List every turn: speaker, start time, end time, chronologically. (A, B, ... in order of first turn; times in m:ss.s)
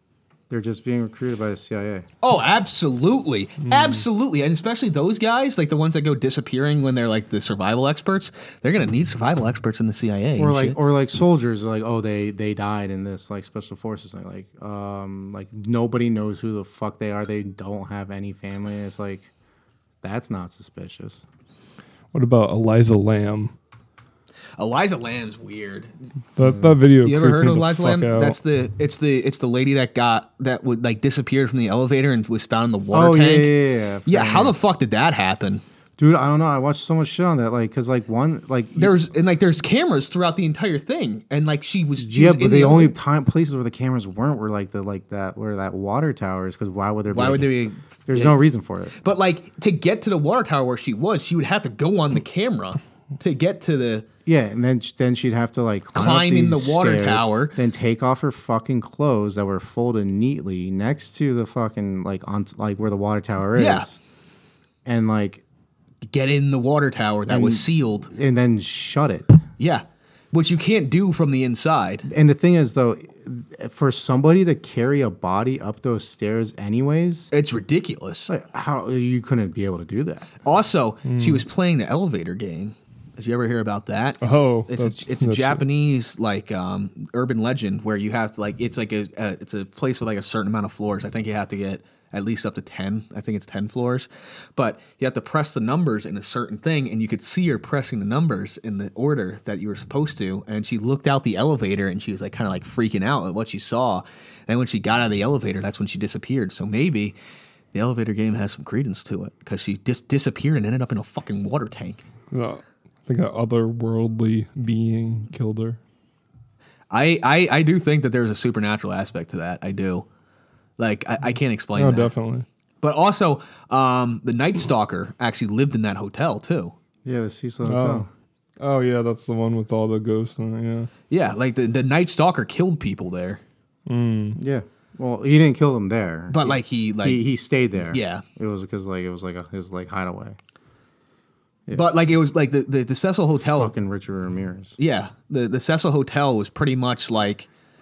0:00.5-0:02.0 A
0:02.2-0:10.8 B
0:03.7-0:04.0 C
0:10.4-0:19.3 A
0:20.0-0:21.2 A
0:22.1-0:23.5 C
0:24.6-0:26.1 B
0:26.4-0:28.4 C
0:26.4-0:26.7 A
0:27.0-0:33.5 B
0:32.9-0:34.6 A
0:34.0-0:35.6 B
0:36.0-0:39.0 A
0:38.7-0:42.9 B
0:42.0-0:47.5 A
0:47.1-0:48.4 B
0:48.1-0:48.9 A
0:49.0-0:54.0 B
0:54.2-1:04.0 A
0:55.9-0:57.6 B
1:03.6-1:03.9 B
1:04.8-1:05.4 A
1:06.1-1:08.1 B
1:07.3-1:09.4 A
1:09.6-1:12.1 B
1:12.1-1:17.3 A
1:17.3-1:18.3 B
1:18.3-1:20.3 A
1:20.4-1:47.2 B
1:21.0-1:21.4 C
1:24.2-1:25.6 C
1:47.7-1:52.0 B
1:52.3-1:55.8 C
1:56.9-2:00.0 B
2:00.8-2:02.1 B
2:01.7-2:02.4 C
2:02.8-2:06.7 B
2:07.0-2:08.1 A
2:07.6-2:08.1 C
2:08.6-2:10.9 C
2:11.1-2:13.4 B
2:13.9-2:14.4 C
2:14.4-2:20.4 A
2:16.3-2:17.2 B
2:17.9-2:18.2 B
2:21.7-2:23.7 B
2:23.3-2:24.8 A
2:24.8-2:27.5 B